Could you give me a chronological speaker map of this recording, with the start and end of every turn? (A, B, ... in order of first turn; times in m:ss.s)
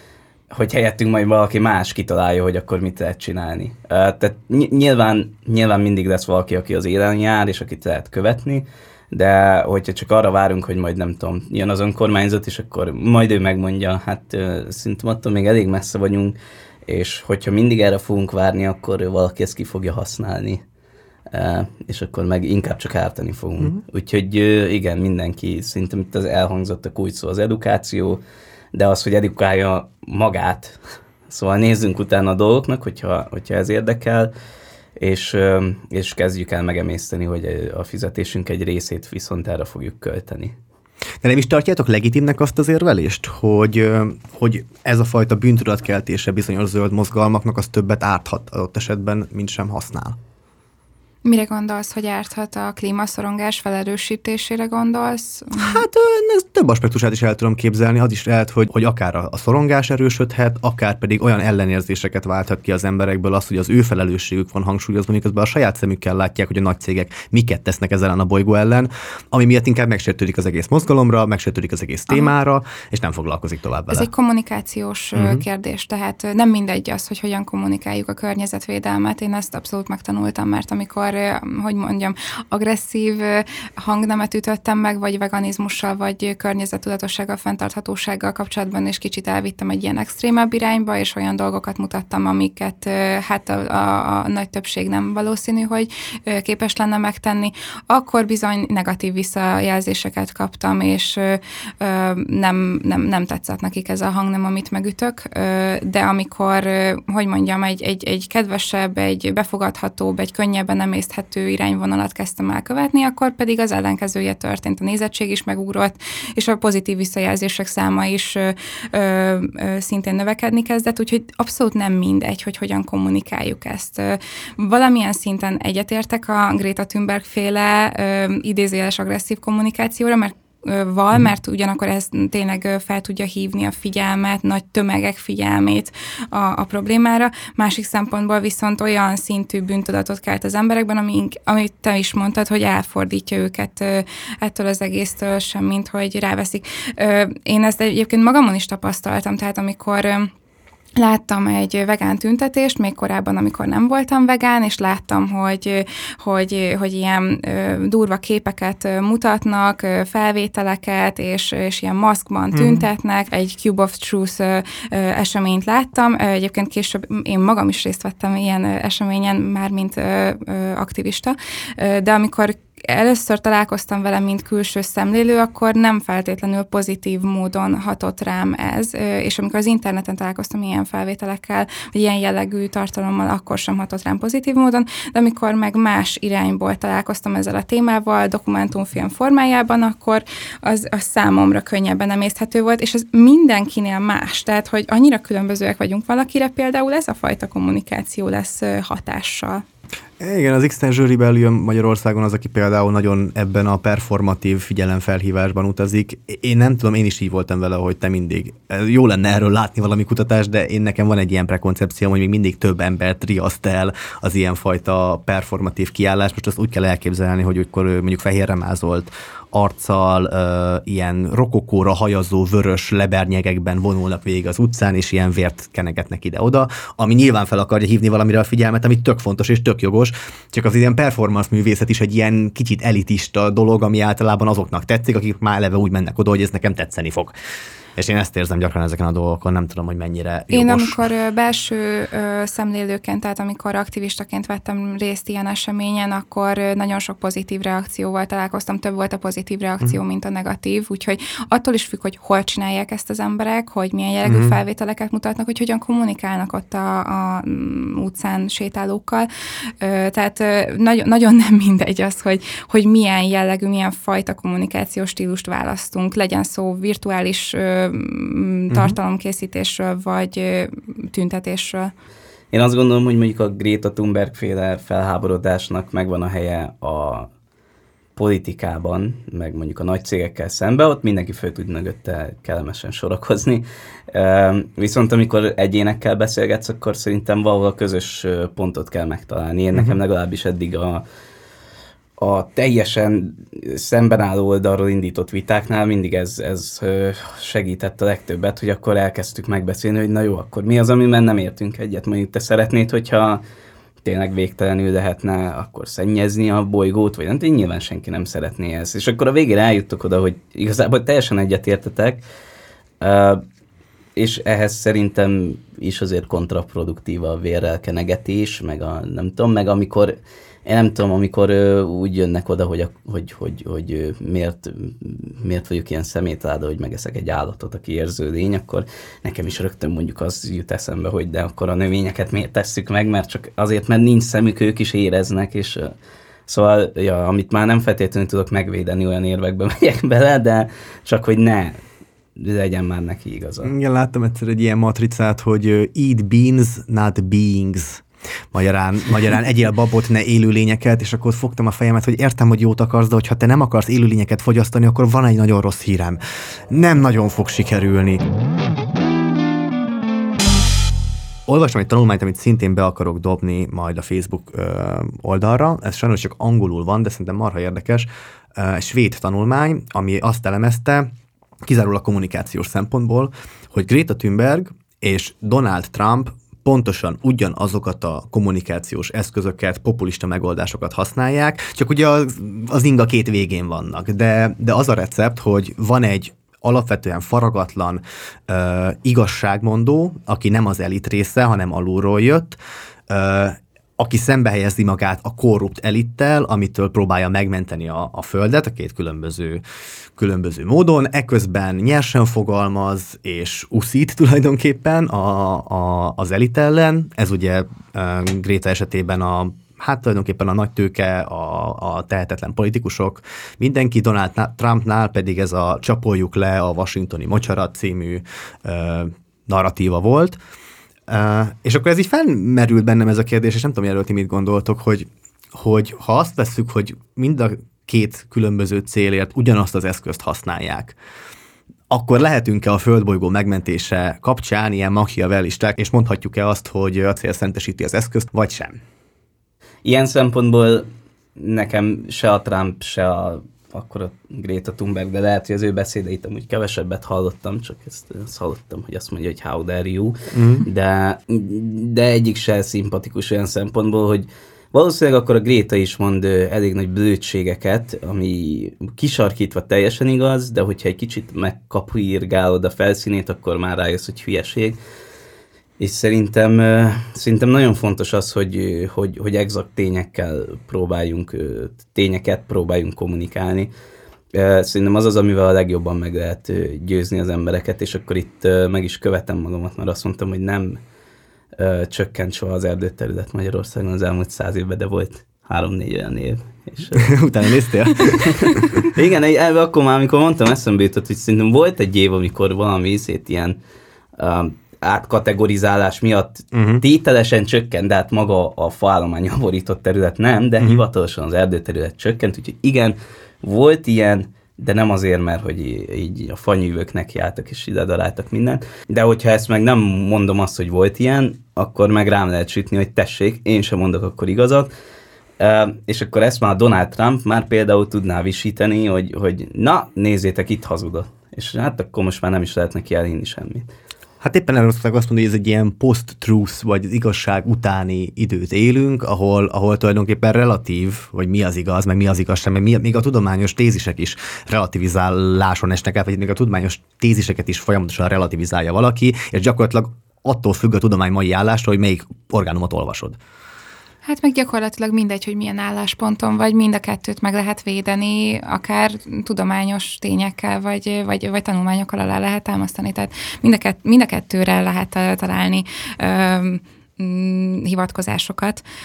0:00.5-0:20.6 A
0:21.3-0:28.2 A
0:28.7-0:30.8 A
0:31.3-0:34.3 A
0:35.0-0:40.5 A
0:41.2-0:50.2 B
0:51.2-0:55.8 C
0:55.6-1:14.1 B
1:13.9-2:30.3 C
1:15.2-1:15.4 B
2:31.0-3:19.6 C
2:42.5-2:42.8 B
3:20.2-3:57.3 B
3:58.0-4:01.0 B
4:00.5-4:19.3 C
4:14.2-4:14.6 B
4:19.8-4:31.9 C
4:28.7-4:29.0 B
4:32.5-4:37.3 A
4:38.2-4:51.0 A
4:49.7-4:50.0 B
4:52.2-5:03.4 A
5:04.0-5:12.2 A
5:13.0-5:13.4 A
5:14.2-5:35.9 A
5:36.5-5:41.8 A
5:42.4-5:43.7 A
5:43.6-5:56.2 B
5:56.7-5:58.2 B
6:01.5-6:11.1 B
6:11.6-6:32.6 B
6:33.1-6:39.6 B
6:40.2-7:00.4 B
7:01.1-7:11.0 B
7:11.9-7:18.8 B
7:19.8-7:30.1 A
7:30.3-7:30.7 B
7:30.6-7:44.8 A
7:45.8-7:53.7 A
7:54.3-8:00.8 A
8:01.6-8:07.2 A
8:07.0-8:08.8 B
8:08.0-8:13.6 A
8:14.2-8:34.7 A
8:16.5-8:16.8 B
8:35.4-8:43.7 A
8:44.2-9:03.2 B
9:04.0-9:18.6 C